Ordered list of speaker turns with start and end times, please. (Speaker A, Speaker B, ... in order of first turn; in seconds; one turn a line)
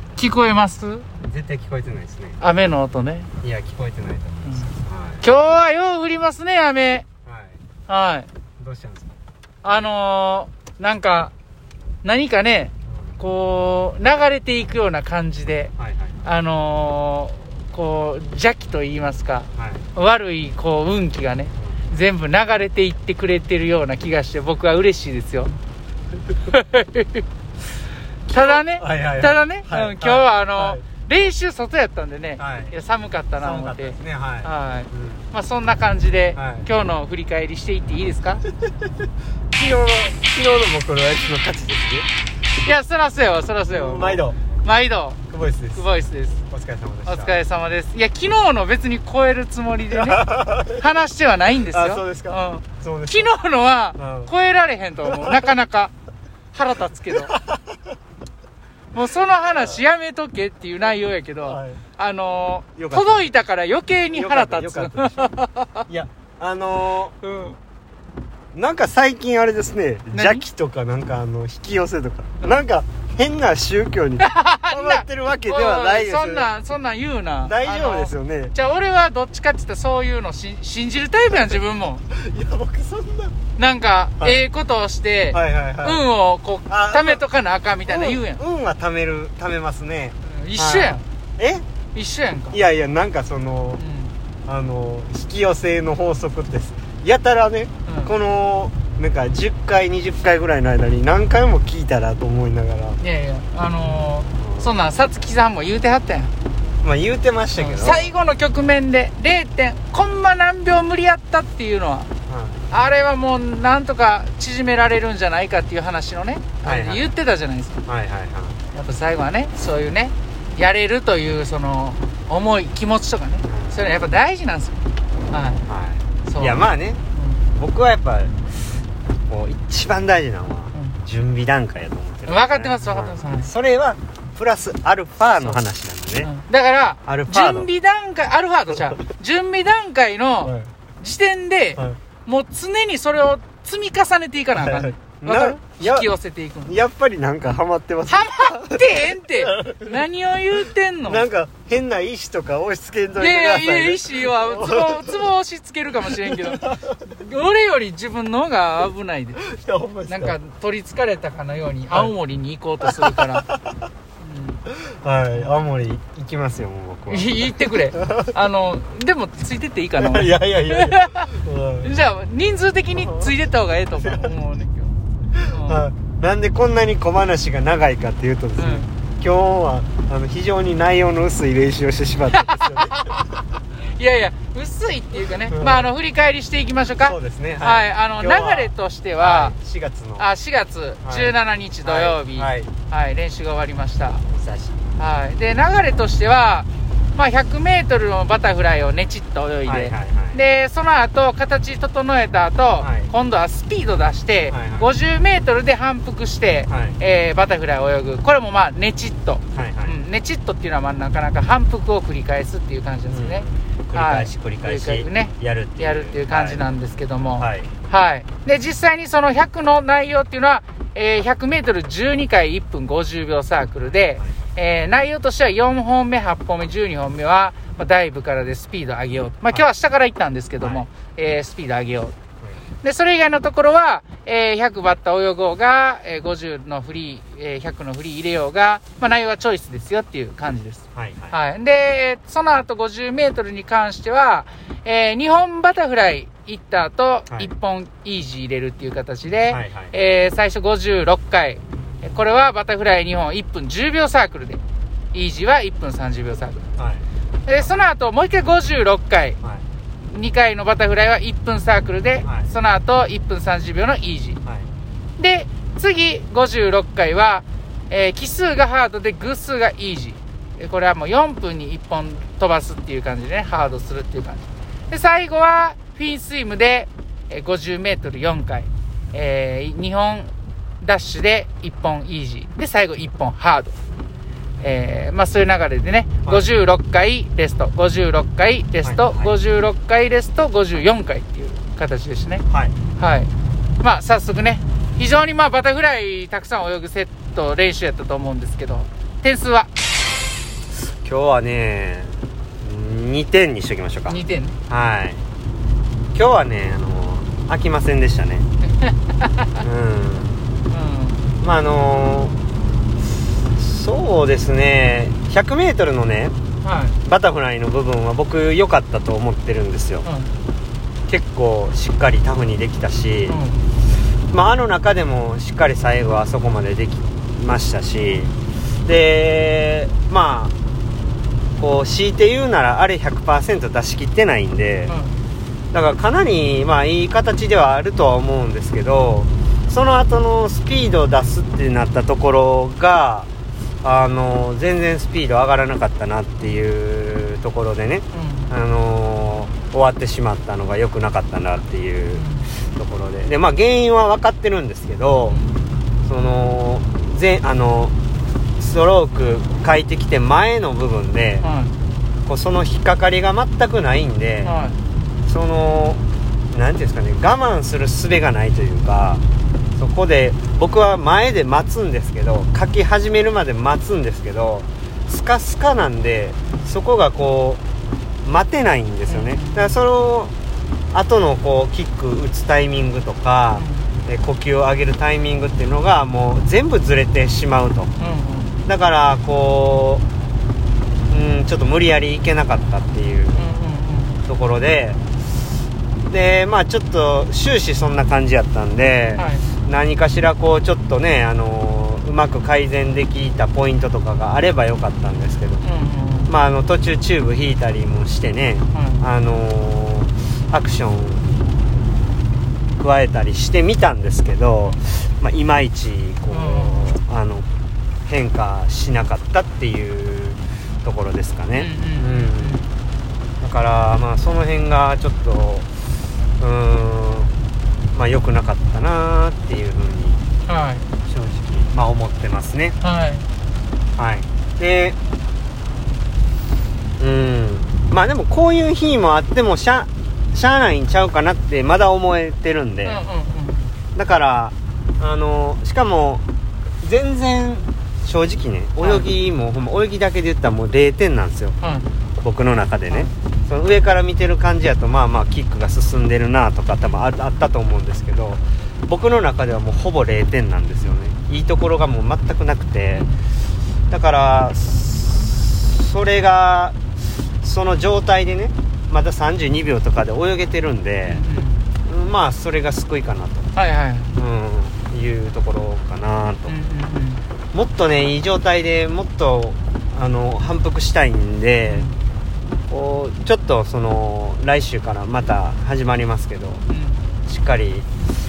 Speaker A: 0.2-1.1
Speaker B: 1.2-2.4
Speaker A: 2.4-3.3
Speaker B: 3.4-5.2
Speaker A: 4.5-7.0
Speaker B: 7.3-7.6
Speaker A: 7.9-8.3
Speaker B: 8.6-9.1
Speaker A: 9.6-11.3
Speaker A: 12.0-25.5
Speaker B: 12.9-13.2
Speaker B: 15.8-16.2
Speaker B: 19.6-19.9
Speaker A: 26.4-27.2
Speaker A: 28.3-38.4
Speaker B: 28.3-30.8
Speaker B: 32.4-32.8
Speaker B: 33.4-35.3
Speaker B: 36.4-36.7
Speaker B: 39.5-42.1
Speaker A: 42.6-45.2
Speaker B: 43.7-44.4
Speaker B: 45.3-45.9
Speaker A: 45.8-46.4
Speaker B: 46.5-47.4
Speaker A: 47.1-55.9
Speaker B: 49.9-50.8
Speaker B: 51.7-53.3
Speaker B: 54.0-54.3
Speaker B: 55.1-55.5
Speaker A: 56.5-57.3
Speaker B: 57.1-57.6
Speaker A: 58.9-65.9
Speaker B: 61.4-61.8
Speaker B: 62.8-63.3
Speaker B: 64.1-65.3
Speaker B: 65.9-67.2
Speaker A: 67.2-67.6
Speaker B: 68.5-76.5
Speaker A: 70.1-70.5
Speaker A: 74.2-82.0
Speaker B: 77.4-78.5
Speaker B: 82.1-83.4
Speaker A: 83.6-88.4
Speaker B: 85.3-86.0
Speaker B: 86.7-87.2
Speaker B: 87.9-91.6
Speaker A: 90.2-91.0
Speaker A: 91.9-92.6
Speaker B: 92.5-93.8
Speaker A: 93.8-94.1
Speaker B: 94.5-103.0
Speaker A: 97.9-98.1
Speaker A: 103.0-106.3
Speaker B: 103.9-104.8
Speaker B: 106.8-108.1
Speaker A: 107.6-112.1
Speaker B: 112.3-112.6
Speaker A: 112.7-117.8
Speaker B: 116.6-117.1
Speaker B: 117.9-118.6
Speaker A: 118.7-124.8
Speaker B: 123.5-124.1
Speaker A: 125.3-125.6
Speaker B: 125.7-127.0
Speaker A: 126.3-127.4
Speaker B: 127.5-128.4
Speaker B: 129.3-136.3
Speaker A: 132.3-133.5
Speaker A: 136.2-146.8
Speaker B: 137.1-137.7
Speaker B: 140.4-140.7
Speaker B: 144.6-146.1
Speaker B: 146.7-150.0
Speaker A: 148.1-151.3
Speaker B: 151.1-155.2
Speaker A: 153.2-159.4
Speaker B: 156.2-156.9
Speaker B: 159.4-160.4
Speaker A: 160.1-163.5
Speaker B: 162.8-163.8
Speaker A: 164.2-164.6
Speaker B: 164.7-168.3
Speaker A: 167.1-171.3
Speaker B: 170.0-171.9
Speaker A: 171.8-174.9
Speaker B: 172.9-173.3
Speaker B: 173.9-174.3
Speaker B: 175.3-183.2
Speaker A: 175.5-175.8
Speaker A: 178.6-178.9
Speaker A: 182.3-189.5
Speaker B: 185.5-185.9
Speaker B: 187.0-190.3
Speaker A: 190.2-194.2
Speaker B: 191.0-192.7
Speaker B: 194.3-194.8
Speaker A: 195.0-232.2
Speaker B: 199.7-200.4
Speaker B: 202.8-203.1
Speaker B: 204.5-204.9
Speaker B: 206.7-207.0
Speaker B: 209.5-209.9
Speaker B: 213.1-216.6
Speaker B: 217.4-217.7
Speaker B: 230.6-230.8
Speaker A: 232.8-254.6
Speaker B: 240.9-241.4
Speaker B: 249.5-249.9
Speaker A: 255.1-256.6
Speaker B: 256.8-257.1
Speaker A: 257.5-259.4
Speaker A: 260.0-264.4
Speaker B: 262.2-262.5
Speaker A: 265.2-280.3
Speaker A: 280.8-283.8
Speaker A: 284.6-299.7
Speaker B: 288.8-289.3
Speaker B: 292.5-292.8
Speaker B: 300.8-305.2
Speaker A: 304.1-304.6
Speaker B: 306.1-308.5
Speaker A: 308.6-309.6
Speaker B: 309.6-310.4
Speaker A: 310.7-311.2
Speaker B: 311.4-312.4
Speaker B: 313.6-316.4
Speaker A: 316.6-317.0
Speaker B: 317.0-320.1
Speaker A: 320.0-320.3
Speaker B: 321.1-323.4
Speaker A: 323.3-323.6
Speaker B: 324.3-328.3
Speaker B: 328.9-330.5
Speaker B: 331.6-334.9
Speaker A: 334.9-335.2
Speaker B: 335.7-343.3
Speaker B: 343.8-355.4
Speaker A: 348.1-348.5
Speaker A: 352.1-352.5
Speaker A: 355.3-355.6
Speaker B: 356.1-357.9
Speaker B: 358.6-361.5
Speaker A: 361.4-361.8
Speaker B: 362.2-364.6
Speaker A: 364.4-364.8
Speaker B: 365.3-369.2
Speaker B: 369.8-377.6
Speaker B: 378.2-380.3
Speaker A: 379.1-379.8
Speaker B: 380.9-387.9
Speaker A: 383.6-383.9
Speaker A: 388.0-388.6
Speaker B: 388.6-390.0
Speaker B: 391.1-393.5
Speaker A: 393.4-394.2
Speaker B: 394.3-395.0
Speaker B: 396.1-405.6
Speaker A: 399.2-399.5
Speaker A: 405.6-406.3
Speaker B: 406.3-411.3
Speaker A: 408.7-409.1
Speaker B: 412.8-417.5
Speaker A: 416.3-417.0
Speaker B: 418.1-422.7
Speaker A: 421.6-422.6
Speaker B: 423.4-425.7
Speaker B: 426.4-427.3
Speaker B: 427.9-430.2
Speaker A: 430.5-430.9
Speaker B: 431.1-432.8
Speaker A: 432.8-433.3
Speaker B: 434.0-435.0
Speaker B: 437.0-443.0
Speaker A: 442.8-443.7
Speaker B: 443.9-446.2
Speaker B: 446.8-451.6
Speaker A: 448.8-449.1
Speaker A: 451.6-451.9
Speaker B: 452.2-463.1
Speaker A: 462.9-463.2
Speaker B: 463.9-466.8
Speaker B: 467.4-471.2
Speaker A: 471.1-471.6
Speaker B: 471.8-473.5
Speaker A: 473.6-474.1
Speaker B: 474.1-476.5
Speaker A: 476.5-477.2
Speaker B: 477.5-481.9
Speaker A: 481.7-482.0
Speaker B: 482.7-486.6
Speaker A: 486.7-487.0
Speaker B: 487.3-487.9